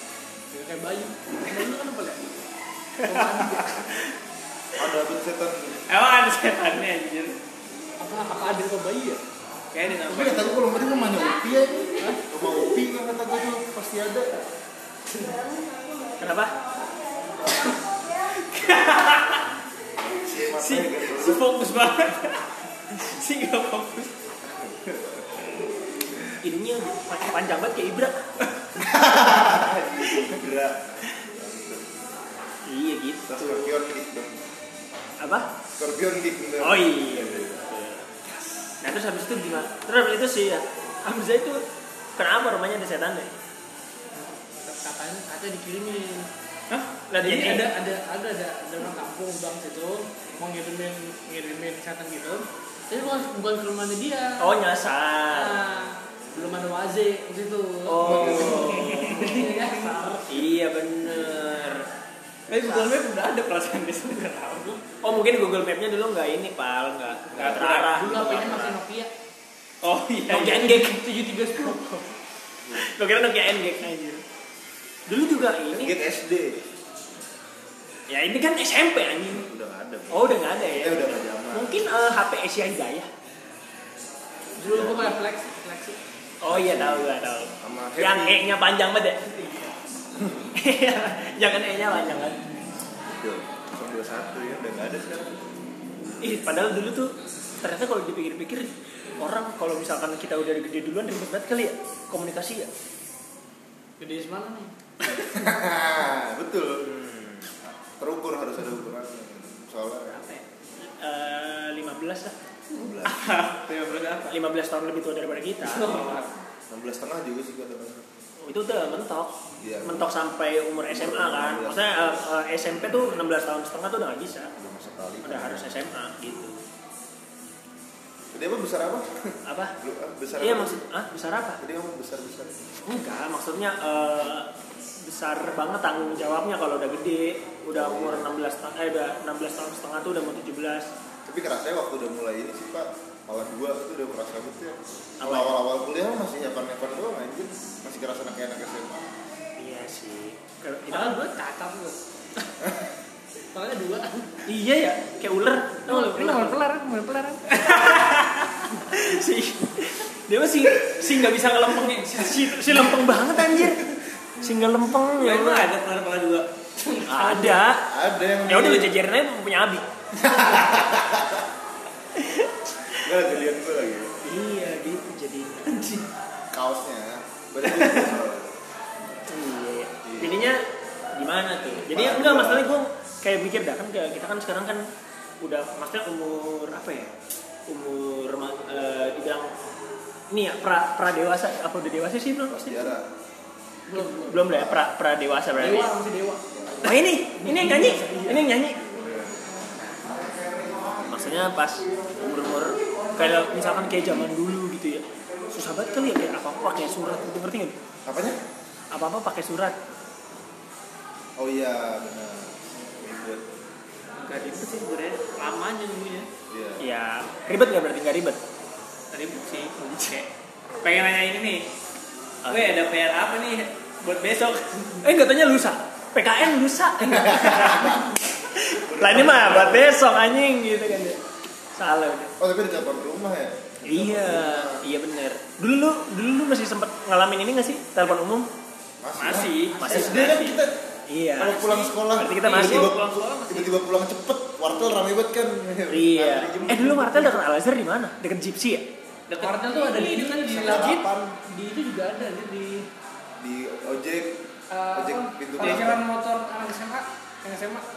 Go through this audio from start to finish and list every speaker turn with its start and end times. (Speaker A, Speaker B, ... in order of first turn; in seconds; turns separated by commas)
Speaker A: 0.5-2.4, Speaker A: 3.0-3.9, Speaker B: 3.1-3.8, Speaker C: 4.8-5.8, Speaker D: 5.9-7.4, Speaker A: 8.0-9.2, Speaker D: 9.7-10.6, Speaker C: 10.1-14.3, Speaker B: 16.2-16.5, Speaker D: 17.5-19.4, Speaker C: 20.0-21.4, Speaker D: 20.6-24.1, Speaker C: 24.5-25.7, Speaker B: 26.4-28.2, Speaker C: 28.8-31.9, Speaker B: 32.7-33.7, Speaker C: 33.3-34.4, Speaker B: 35.2-35.5, Speaker C: 35.8-37.6, Speaker B: 36.6-38.1, Speaker B: 38.8-41.6, Speaker B: 42.2-43.4, Speaker A: 44.2-46.3, Speaker B: 47.0-47.7, Speaker A: 47.2-54.6, Speaker B: 54.4-55.6, Speaker A: 55.3-60.3, Speaker B: 57.9-59.5, Speaker C: 58.1-58.6, Speaker D: 58.4-60.2, Speaker B: 60.3-61.9, Speaker D: 62.5-64.8, Speaker B: 62.6-62.9, Speaker B: 65.0-68.8, Speaker D: 67.3-68.3, Speaker C: 67.4-67.7, Speaker A: 67.8-69.1, Speaker D: 69.8-70.6, Speaker A: 70.3-72.0, Speaker B: 70.3-71.0, Speaker B: 72.7-74.2, Speaker B: 75.1-75.9, Speaker C: 75.7-76.6, Speaker B: 78.1-79.5, Speaker C: 79.3-81.8, Speaker B: 80.1-83.1, Speaker A: 84.6-86.0, Speaker C: 84.6-85.2, Speaker B: 86.4-89.8, Speaker C: 86.5-88.4, Speaker B: 90.6-92.4, Speaker C: 93.1-95.4, Speaker B: 96.2-102.7, Speaker A: 104.0-104.7, Speaker C: 105.1-106.9, Speaker B: 106.8-107.5, Speaker C: 108.0-110.3, Speaker B: 111.0-112.4, Speaker C: 112.7-113.2, Speaker D: 113.0-114.3, Speaker B: 114.2-116.1, Speaker D: 115.6-116.4, Speaker C: 116.7-118.1, Speaker B: 118.4-124.5, Speaker C: 119.6-120.1, Speaker C: 120.9-123.3, Speaker C: 124.6-125.8, Speaker B: 125.2-126.6, Speaker C: 128.3-130.8, Speaker B: 129.5-129.7, Speaker B: 130.4-131.6, Speaker C: 131.6-132.6, Speaker B: 132.8-134.5, Speaker B: 135.0-140.9, Speaker C: 137.7-138.3, Speaker C: 141.2-149.1, Speaker B: 145.2-145.6, Speaker B: 149.6-151.2, Speaker A: 150.9-152.0, Speaker A: 153.5-154.4, Speaker B: 154.5-156.6, Speaker A: 155.9-157.9, Speaker B: 157.5-163.8, Speaker C: 162.7-163.8, Speaker B: 164.4-165.7, Speaker D: 165.2-166.5, Speaker A: 166.8-167.7, Speaker B: 167.1-167.8, Speaker C: 167.9-168.9, Speaker B: 168.5-169.9, Speaker C: 170.1-171.5, Speaker B: 172.2-173.1, Speaker C: 172.9-174.2, Speaker B: 174.2-176.1, Speaker C: 176.5-178.5, Speaker B: 179.3-180.6, Speaker C: 180.0-180.5, Speaker B: 181.1-184.9, Speaker C: 181.9-182.7, Speaker B: 185.4-187.2, Speaker B: 187.7-189.5, Speaker B: 190.3-192.8, Speaker C: 192.5-193.1, Speaker A: 193.9-194.5, Speaker B: 193.9-195.9, Speaker C: 194.5-194.9, Speaker A: 195.6-196.4, Speaker C: 196.5-197.0, Speaker B: 196.8-198.8, Speaker A: 197.4-198.4, Speaker C: 198.6-201.5, Speaker B: 201.1-207.8, Speaker A: 202.8-203.8, Speaker C: 208.1-208.4, Speaker B: 208.9-209.8, Speaker C: 211.4-213.5, Speaker D: 214.2-216.3, Speaker C: 216.5-216.8, Speaker B: 216.8-218.4, Speaker D: 219.1-220.3, Speaker D: 220.8-221.6, Speaker B: 222.4-222.8, Speaker D: 222.5-225.0, Speaker B: 225.0-231.2, Speaker C: 227.0-228.1, Speaker C: 228.8-230.2, Speaker B: 231.8-232.3, Speaker C: 232.4-234.8, Speaker B: 233.8-238.5, Speaker C: 239.0-240.8, Speaker D: 239.2-240.3, Speaker B: 239.8-242.9, Speaker C: 241.4-247.4, Speaker D: 241.4-243.8, Speaker B: 245.9-248.8, Speaker D: 249.3-250.8, Speaker A: 249.4-252.8, Speaker C: 250.5-251.3, Speaker C: 253.4-254.4, Speaker A: 254.7-257.9, Speaker C: 254.9-256.0